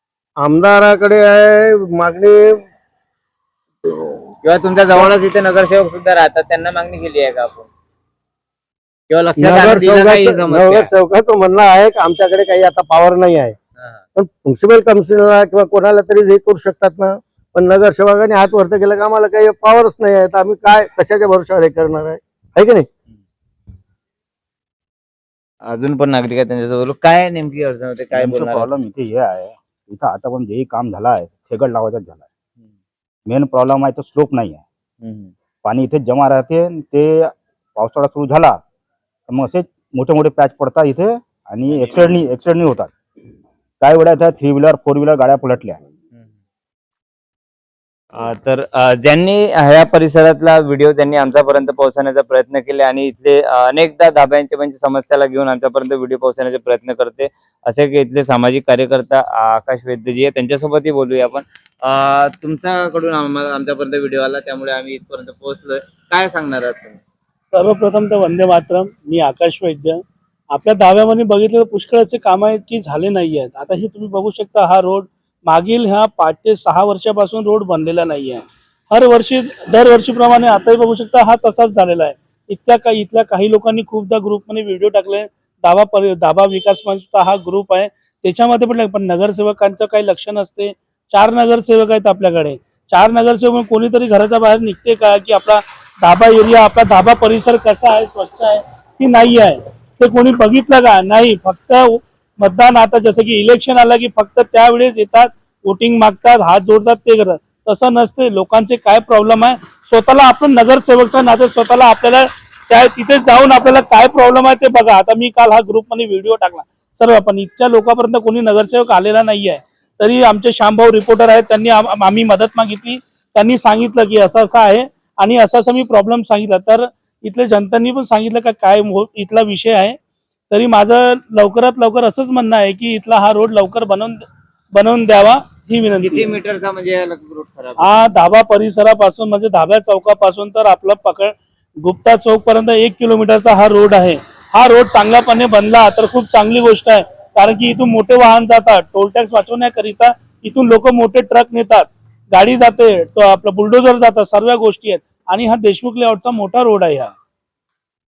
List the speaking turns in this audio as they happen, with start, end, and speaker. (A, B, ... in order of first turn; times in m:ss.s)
0:00.4-0:02.6 A
0:04.4-0:07.7 B
0:09.1-0:10.9 B
0:09.4-0:13.5 A
0:14.2-0:22.9 A
0:25.6-0:28.7 B
0:28.1-0:32.2 C
0:33.2-0:34.6 C
0:35.0-0:35.3 B
0:35.6-0:38.6 C
0:39.3-0:42.9 C
0:43.8-0:45.8 C
0:48.1-1:07.0 B
1:07.5-2:10.0 D
2:10.5-2:16.3 D
2:16.0-2:18.0 B
2:17.8-2:37.1 D